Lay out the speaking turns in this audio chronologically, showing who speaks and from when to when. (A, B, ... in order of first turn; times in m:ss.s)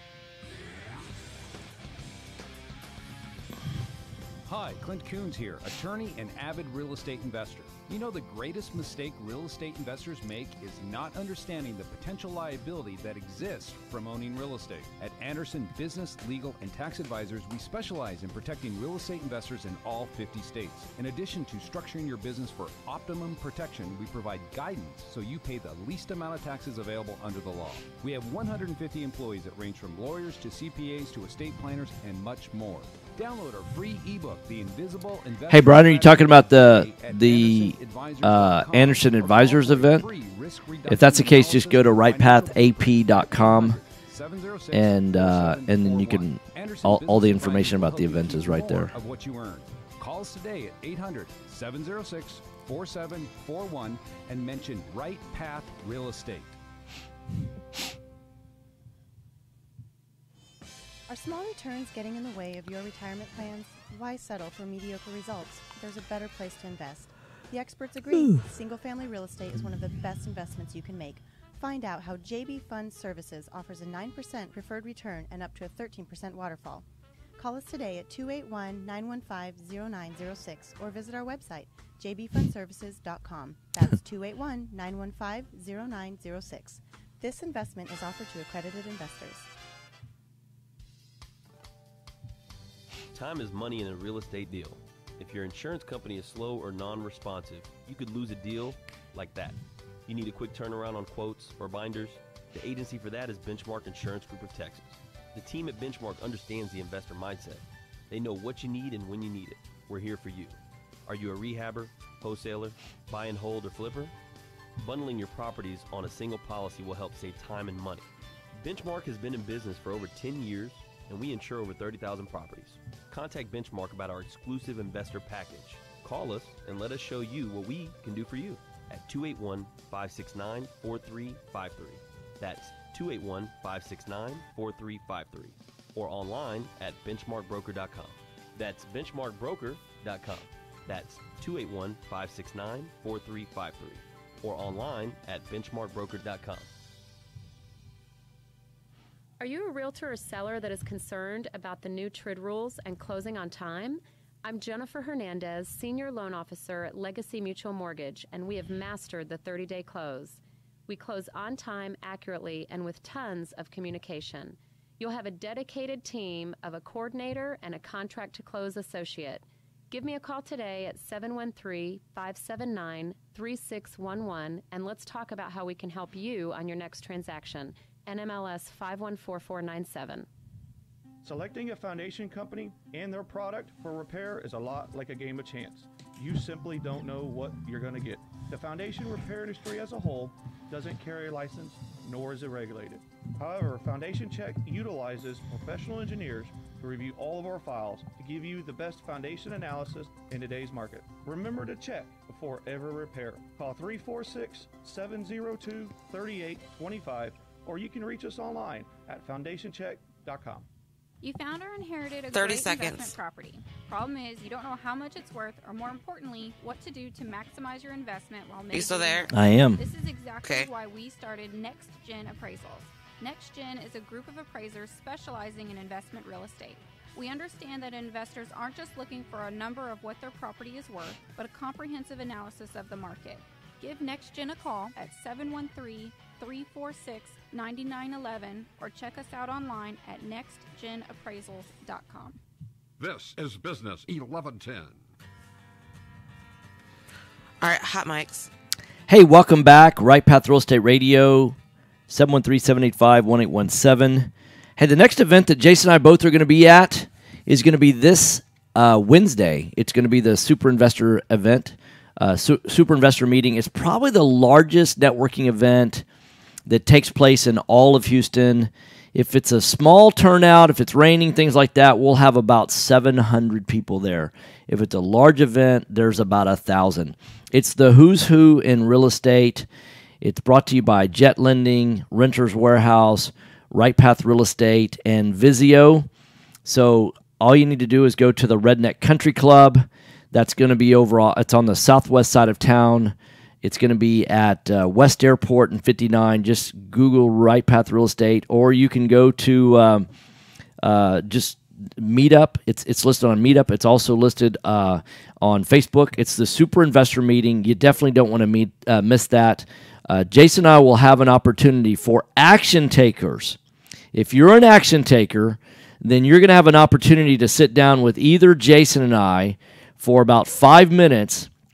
0:04.4-0:56.6 A
0:35.5-0:40.1 B
0:40.9-0:43.8 B
0:44.7-0:48.9 B
1:01.1-1:16.8 C
1:17.4-1:29.5 C
1:33.1-1:54.1 D
1:54.8-2:26.7 D
2:29.4-3:00.3 E
3:01.2-3:30.7 F
3:31.2-4:02.4 G
3:32.3-3:33.1 H
3:38.7-3:39.3 H
3:39.3-3:39.8 B
3:40.4-3:40.7 H
4:03.0-4:05.0 I
4:07.6-4:08.5 H
4:09.1-4:11.6 B
4:12.1-4:26.0 B
4:26.7-4:39.7 B
4:40.2-4:46.1 B
4:46.6-5:00.1 B
5:00.8-5:13.6 B
5:14.1-5:21.5 B